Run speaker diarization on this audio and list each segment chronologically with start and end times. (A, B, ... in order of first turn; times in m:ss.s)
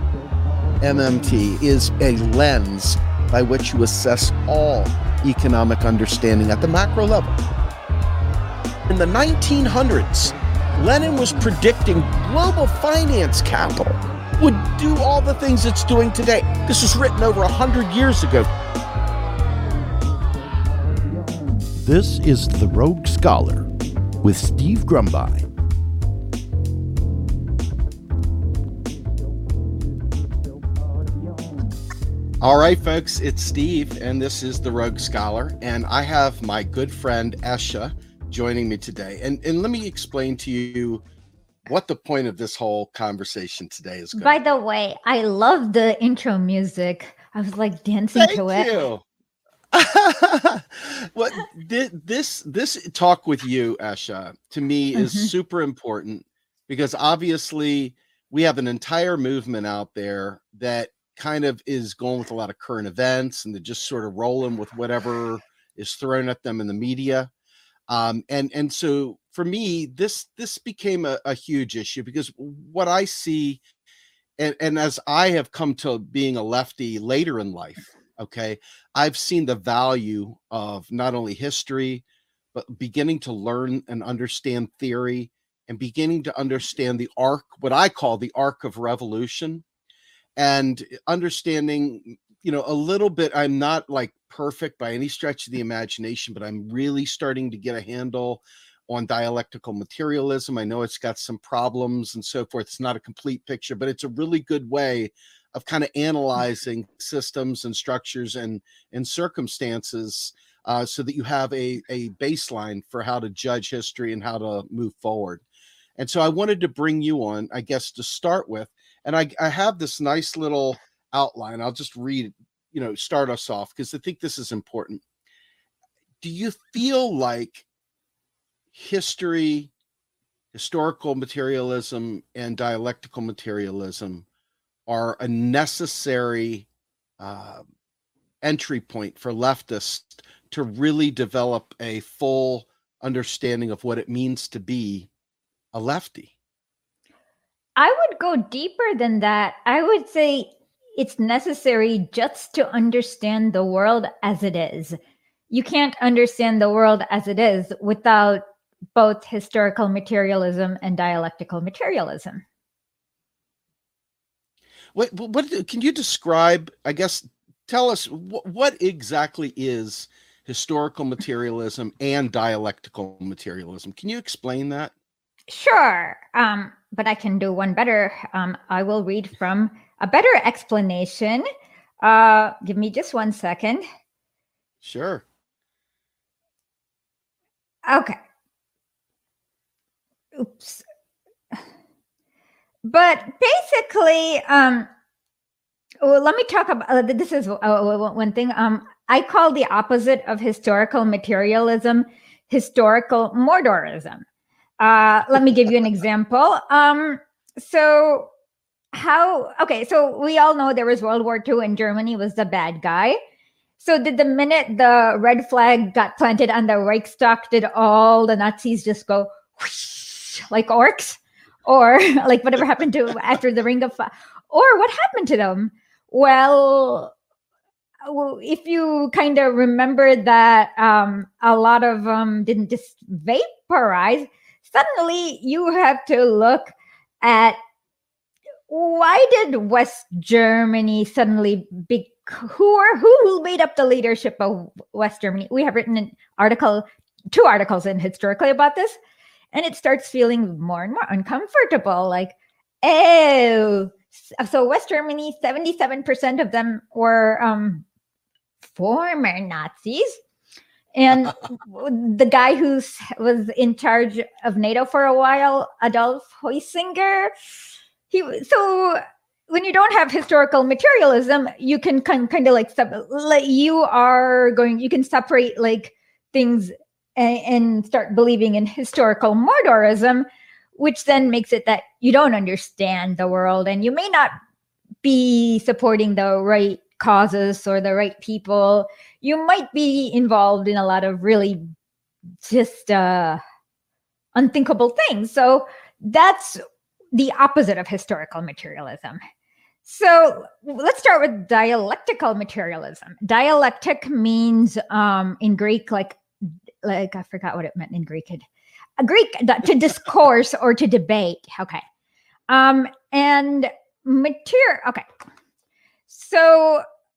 0:00.8-0:07.4 A
0:08.9-0:18.5 A
0:21.8-0:23.7 B
0:24.2-0:25.5 B
0:32.4-0:41.0 A
0:41.7-0:44.4 A
0:44.2-0:48.7 C
0:48.2-0:49.0 A
0:49.7-1:07.3 A
0:55.0-0:55.3 C
1:07.9-1:13.6 A
1:14.4-1:22.0 A
1:22.6-1:29.6 A
1:30.4-1:55.4 A
1:56.0-2:05.0 A
2:06.2-2:07.6 A
2:08.7-2:09.7 A
2:10.5-2:14.2 A
2:14.9-2:16.7 A
2:17.2-2:17.6 A
2:18.4-2:25.1 A
2:25.7-2:26.3 A
2:27.8-2:35.0 C
2:35.5-2:38.4 C
2:39.0-2:42.4 C
2:45.0-2:54.9 A
2:55.5-3:01.4 C
3:02.0-3:03.8 C
3:04.8-3:05.2 A
3:07.9-3:08.2 C
3:10.4-3:10.8 C
3:12.8-3:14.9 C
3:16.0-3:24.2 C
3:24.8-3:28.3 C
3:28.9-3:33.2 C
3:33.8-3:47.1 C
3:48.0-3:57.6 C
3:58.7-4:09.0 C
4:09.5-4:17.8 C
4:18.6-4:20.2 C
4:21.0-4:27.3 C
4:28.1-4:40.2 C
4:40.8-4:44.3 C
4:45.0-4:51.6 C
4:52.4-4:53.4 C
4:54.4-4:56.6 C
4:57.1-4:59.2 C
4:59.8-5:08.4 C
5:09.0-5:11.8 C
5:12.5-5:15.0 C
5:16.1-5:16.8 C